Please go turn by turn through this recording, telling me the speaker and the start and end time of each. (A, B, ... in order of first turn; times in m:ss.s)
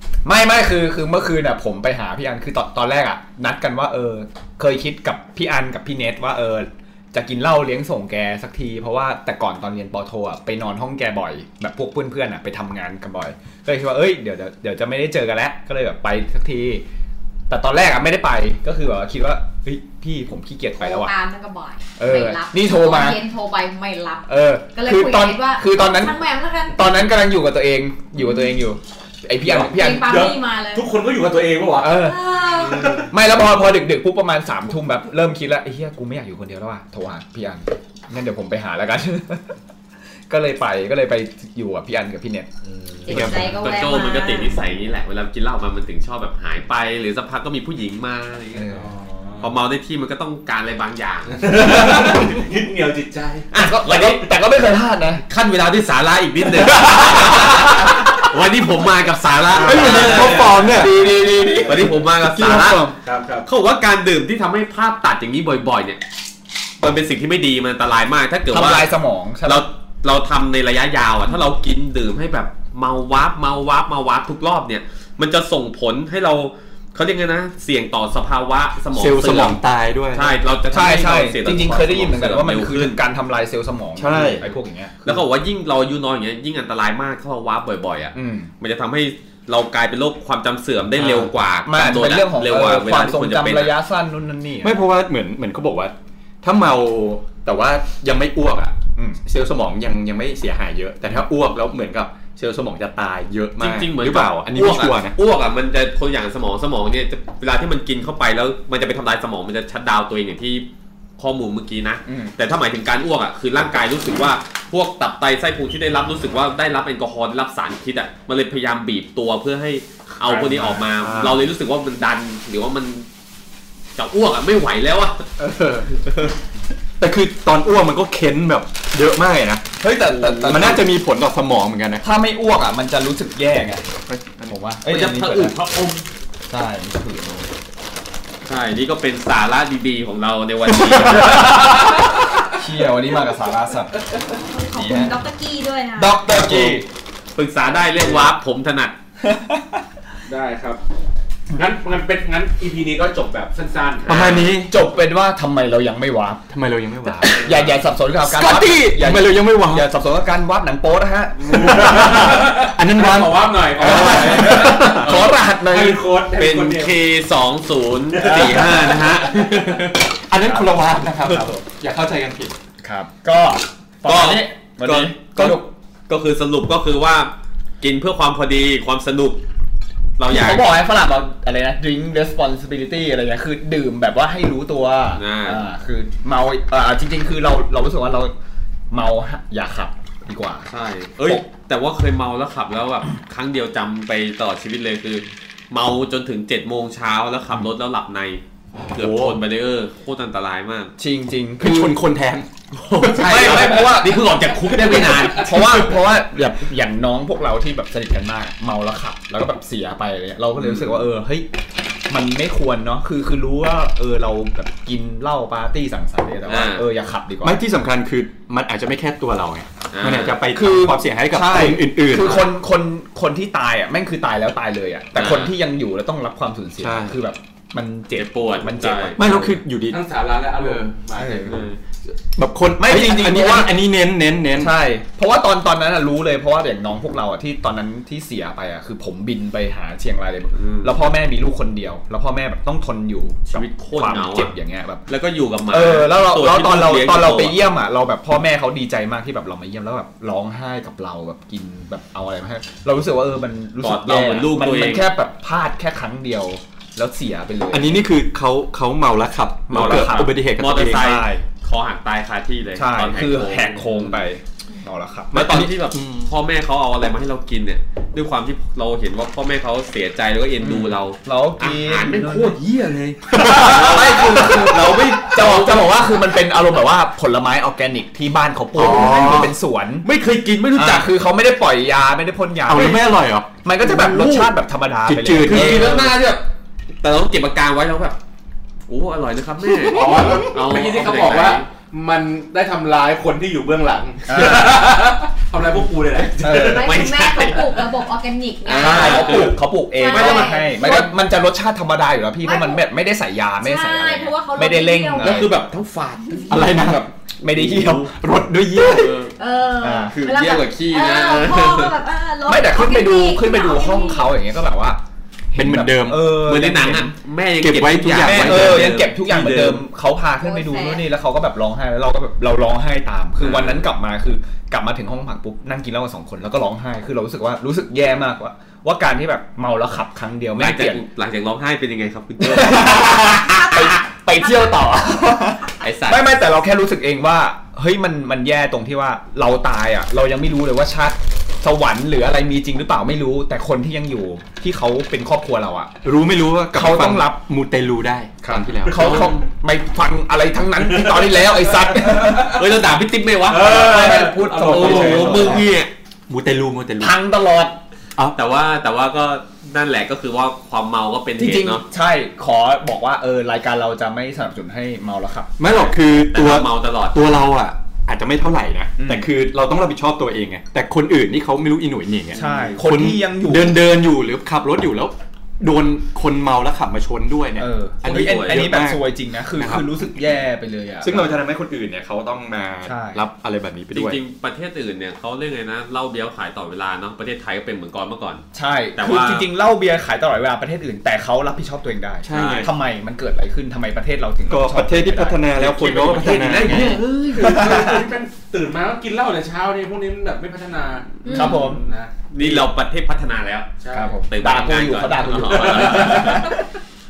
0:00.2-0:16.8 A
0:17.5-0:21.1 A
0:20.8-0:26.8 B
0:22.0-0:23.2 A
0:24.3-0:30.2 A
0:28.2-0:28.6 B
0:29.4-0:33.1 C
0:29.6-0:30.9 B
0:31.8-0:32.2 A
0:32.0-0:33.1 B
0:33.1-0:39.5 A
0:40.3-0:42.5 A
0:42.6-0:43.4 C
0:43.0-0:44.6 B
0:43.1-0:43.4 D
0:43.2-0:48.7 E
0:48.5-0:48.9 A
0:48.7-0:49.5 C
0:49.4-0:51.5 E
0:51.3-0:53.5 C
0:53.5-0:54.3 E
0:53.5-0:55.2 A
0:55.2-1:00.5 E
0:56.8-0:58.0 A
0:59.6-1:00.9 D
0:59.6-1:01.9 A
0:59.6-1:00.9 C
1:01.6-1:02.8 E
1:02.2-1:03.0 D
1:03.0-1:03.4 C
1:03.4-1:06.0 E
1:06.8-1:08.9 E
1:08.5-1:09.6 A
1:09.4-1:19.6 E
1:18.9-1:20.3 D
1:20.1-1:23.0 E
1:20.7-1:25.2 A
1:24.0-1:24.4 D
1:25.0-1:33.7 E
1:28.1-1:28.5 A
1:31.0-1:34.8 A
1:34.6-1:45.2 D
1:39.0-1:39.2 A
1:43.6-1:50.7 E
1:51.2-2:03.1 E
1:52.0-1:52.3 A
2:00.2-2:01.3 A
2:01.0-2:01.4 D
2:04.0-2:05.3 E
2:05.4-2:05.9 D
2:07.0-2:09.6 D
2:09.8-2:10.9 A
2:10.0-2:10.7 E
2:10.4-2:12.0 D
2:12.0-2:13.9 A
2:14.1-2:14.5 D
2:14.5-2:15.6 A
2:14.8-2:16.0 E
2:16.5-2:17.5 A
2:18.4-2:21.7 E
2:21.0-2:24.0 A
2:24.3-2:26.2 B
2:24.7-2:25.1 A
2:26.0-2:26.8 A
2:26.3-2:26.8 E
2:27.4-2:28.9 E
2:29.2-2:29.8 A
2:30.2-2:30.8 C
2:31.5-2:34.1 C
2:34.0-2:34.5 E
2:34.1-2:34.7 D
2:34.7-2:36.4 A
2:36.5-2:37.5 D
2:37.0-2:42.5 A
2:38.2-2:39.8 D
2:41.4-2:45.0 C
2:41.5-2:45.1 D
2:43.8-2:46.0 A
2:44.8-2:45.4 E
2:45.6-2:46.9 C
2:46.4-2:50.1 E
2:48.1-2:49.5 C
2:50.3-2:52.5 D
2:50.4-2:51.6 A
2:52.8-2:55.7 A
2:54.0-2:59.4 E
3:00.2-3:00.7 E
3:00.3-3:08.3 A
3:05.2-3:05.6 E
3:08.9-3:10.7 A
3:10.7-3:20.9 E
3:18.8-3:19.4 D
3:21.0-3:22.0 A
3:21.6-3:22.5 D
3:22.7-3:25.9 E
3:23.0-3:23.8 D
3:23.1-3:31.5 A
3:24.8-3:25.8 D
3:32.1-3:37.6 A
3:36.5-3:36.8 E
3:37.4-3:42.5 D
3:39.9-3:40.4 E
3:40.5-3:49.6 A
3:42.2-3:42.5 E
3:45.1-3:45.6 E
3:46.8-3:47.2 D
3:48.1-3:49.3 E
3:49.2-3:50.0 D
3:49.9-3:51.6 C
3:50.6-3:50.9 D
3:51.1-3:51.6 A
3:51.5-3:51.8 E
3:52.4-3:54.7 D
3:52.8-3:53.8 A
3:54.5-4:05.0 A
4:00.5-4:00.9 E
4:03.5-4:04.5 E
4:05.1-4:07.6 E
4:05.7-4:18.0 A
4:13.8-4:15.1 E
4:17.7-4:21.1 D
4:19.7-4:21.4 A
4:19.7-4:24.2 E
4:22.7-4:25.6 A
4:25.3-4:36.1 E
4:25.3-4:26.3 D
4:30.6-4:32.6 A
4:33.2-4:34.8 D
4:33.4-4:33.8 C
4:33.5-4:40.0 A
4:38.7-4:39.5 E
4:38.7-4:39.5 D
4:40.0-4:41.1 E
4:40.7-4:43.0 A
4:42.6-4:44.5 D
4:43.6-4:46.1 A
4:43.9-4:44.3 E
4:45.0-4:46.1 D
4:45.4-4:46.5 E
4:47.0-4:48.2 E
4:48.9-4:51.7 E
4:49.9-4:57.0 C
4:50.0-4:50.3 D
4:50.0-4:50.5 A
4:54.3-4:54.8 A
4:56.4-4:56.9 A
4:56.5-5:01.1 B
4:56.8-4:57.8 E
4:58.6-5:01.0 E
4:58.8-5:05.5 A
5:02.4-5:02.8 B
5:03.6-5:05.5 B
5:05.2-5:08.1 E
5:06.3-5:06.7 B
5:06.5-5:07.0 D
5:07.4-5:08.1 A
5:08.1-5:09.2 D
5:08.7-5:09.3 E
5:09.4-5:14.3 B
5:09.8-5:10.1 A
5:10.1-5:12.0 E
5:12.4-5:15.0 A
5:15.5-5:17.2 A
5:15.5-5:16.3 D
5:16.4-5:19.8 E
5:17.6-5:19.0 D
5:18.2-5:31.0 A
5:20.4-5:21.0 B
5:23.4-5:23.8 E
5:30.6-5:33.5 E
5:32.4-5:45.9 A
5:33.4-5:33.9 B
5:35.8-5:36.2 E
5:46.0-5:49.4 D
5:46.7-5:47.4 A
5:48.4-5:52.6 A
5:48.9-5:49.3 E
5:52.1-5:52.5 C
5:52.4-5:55.9 E
5:53.5-5:55.6 C
5:53.5-5:55.7 A
5:55.2-5:55.6 D
5:56.3-5:57.2 D
5:57.0-5:57.8 A
5:58.3-6:01.8 E
6:01.4-6:05.6 A
6:05.6-6:19.0 D
6:05.6-6:07.2 E
6:09.0-6:09.3 A
6:12.3-6:13.8 A
6:12.3-6:12.8 E
6:17.6-6:21.4 A
6:18.0-6:18.6 E
6:19.5-6:19.9 D
6:21.0-6:24.2 D
6:22.8-6:23.2 A
6:23.9-6:29.4 E
6:28.5-6:38.0 A
6:32.2-6:32.7 D
6:32.3-6:32.7 E
6:34.5-6:37.0 D
6:35.6-6:37.6 E
6:36.2-6:42.1 C
6:41.2-6:41.8 B
6:41.3-6:41.8 A
6:42.3-6:43.7 E
6:42.4-6:42.6 A
6:43.8-6:44.2 C
6:43.9-6:46.6 A
6:44.3-6:46.5 E
6:45.5-6:46.5 C